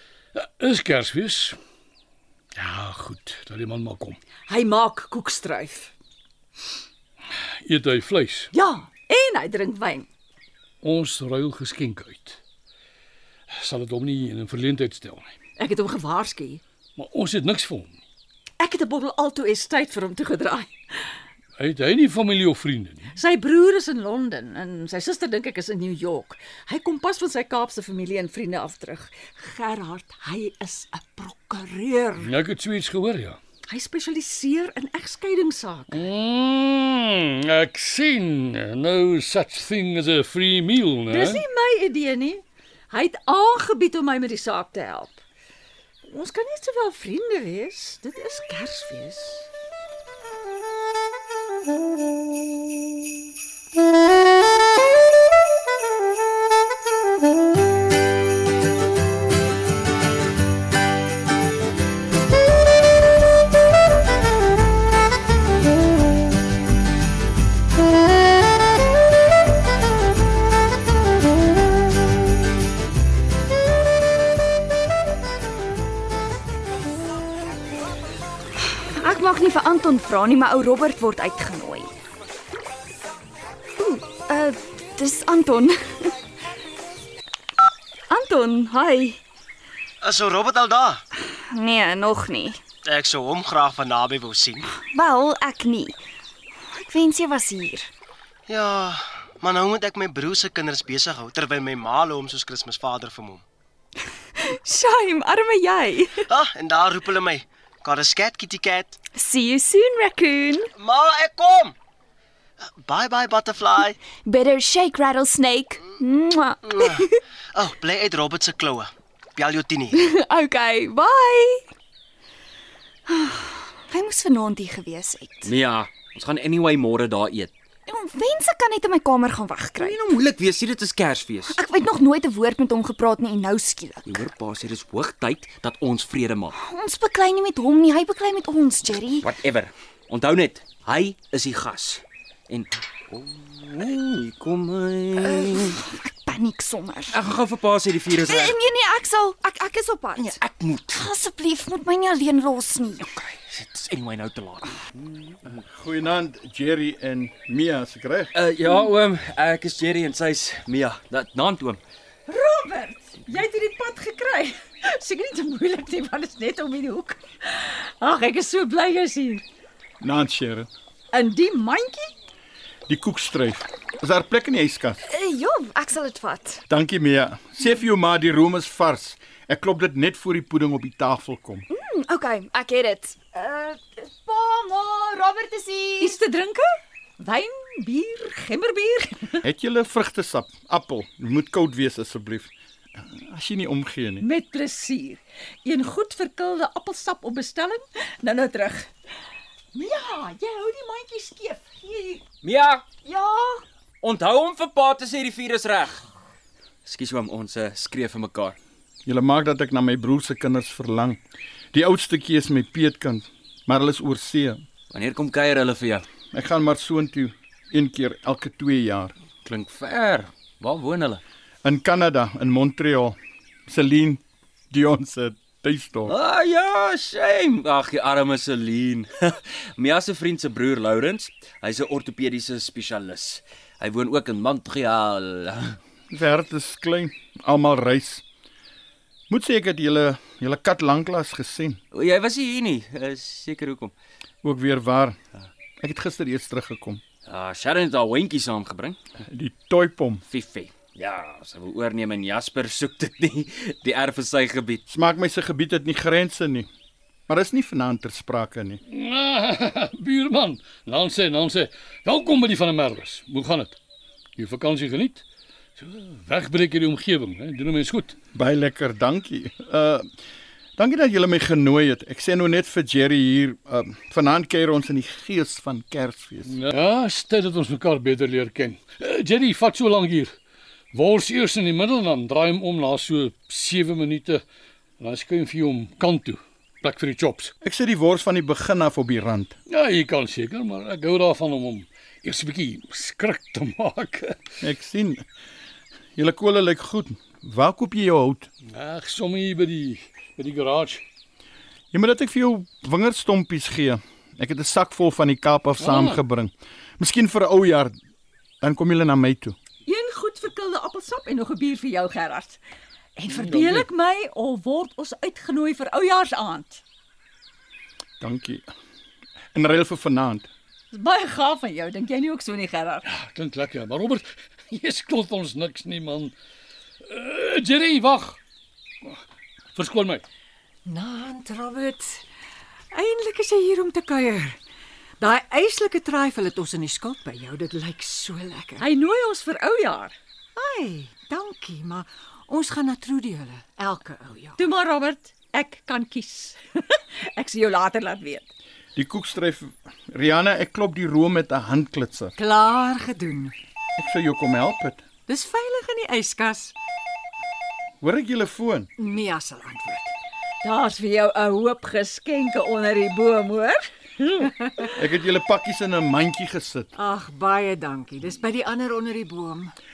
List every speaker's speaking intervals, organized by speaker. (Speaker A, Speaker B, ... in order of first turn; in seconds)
Speaker A: 0.3-1.6, 2.5-4.2, 7.6-8.5, 10.8-12.4, 13.5-15.3, 16.9-18.0, 21.5-23.1, 32.2-33.4, 35.9-41.4, 258.9-263.8, 264.4-265.2, 265.8-268.1, 276.4-280.4, 280.9-284.4, 285.0-287.5, 289.7-294.4, 298.7-301.0, 305.8-306.2, 313.3-313.9, 323.1-326.3, 327.0-328.4, 329.7-330.2
Speaker B: 4.5-5.9, 8.5-10.1, 15.6-16.6, 18.6-20.7, 23.1-32.3, 33.7-36.0, 41.1-45.2, 46.0-49.5, 162.3-169.4, 171.1-172.1, 186.0-189.4, 194.2-198.9, 199.7-202.2, 309.8-312.6, 313.1-316.8, 320.9-323.1, 338.8-340.1, 344.6-348.5, 360.6-364.9
Speaker C: 78.6-81.9, 83.8-86.1, 88.1-89.2, 91.2-92.6, 94.9-96.0, 96.7-97.9, 104.4-106.1, 109.2-110.7, 114.2-116.5, 120.1-121.6, 123.1-125.5, 127.8-130.0, 131.5-134.2, 136.6-139.3, 145.2-147.2, 148.2-150.3, 150.9-153.0, 175.1-176.6, 181.7-186.1
Speaker D: 90.0-91.0, 92.8-94.8, 98.5-103.4, 106.2-109.0, 110.8-111.7, 112.8-114.1, 116.6-120.0
Speaker E: 125.4-127.5, 129.8-131.6, 134.1-136.6, 139.2-145.8, 147.1-148.6, 150.2-151.1, 153.0-155.6, 158.3-161.8, 202.4-202.8, 204.0-206.0, 206.8-208.6, 214.9-216.1, 219.4-221.2, 226.1-235.8, 241.9-243.9, 247.2-249.0, 250.3-254.8
Speaker F: 155.7-158.3, 170.0-170.7, 172.9-175.0, 176.7-181.7, 189.4-192.5, 193.1-194.3, 209.1-211.2, 211.7-214.6, 216.3-219.1, 221.6-223.2, 223.7-226.1, 236.1-238.2, 239.3-241.8, 244.4-245.2, 245.8-247.0, 249.3-250.2, 254.9-256.7, 257.3-258.8, 268.3-270.1, 270.8-276.5, 287.6-289.6, 294.6-295.2, 296.1-298.5, 301.9-308.0, 308.6-309.6, 318.2-318.7, 319.5-320.5, 348.9-352.3, 354.0-355.0, 358.0-358.9, 364.9-366.9
Speaker G: 330.9-332.2, 332.9-334.6, 335.2-338.6, 340.6-344.3, 353.2-353.5, 359.0-360.1, 367.0-369.7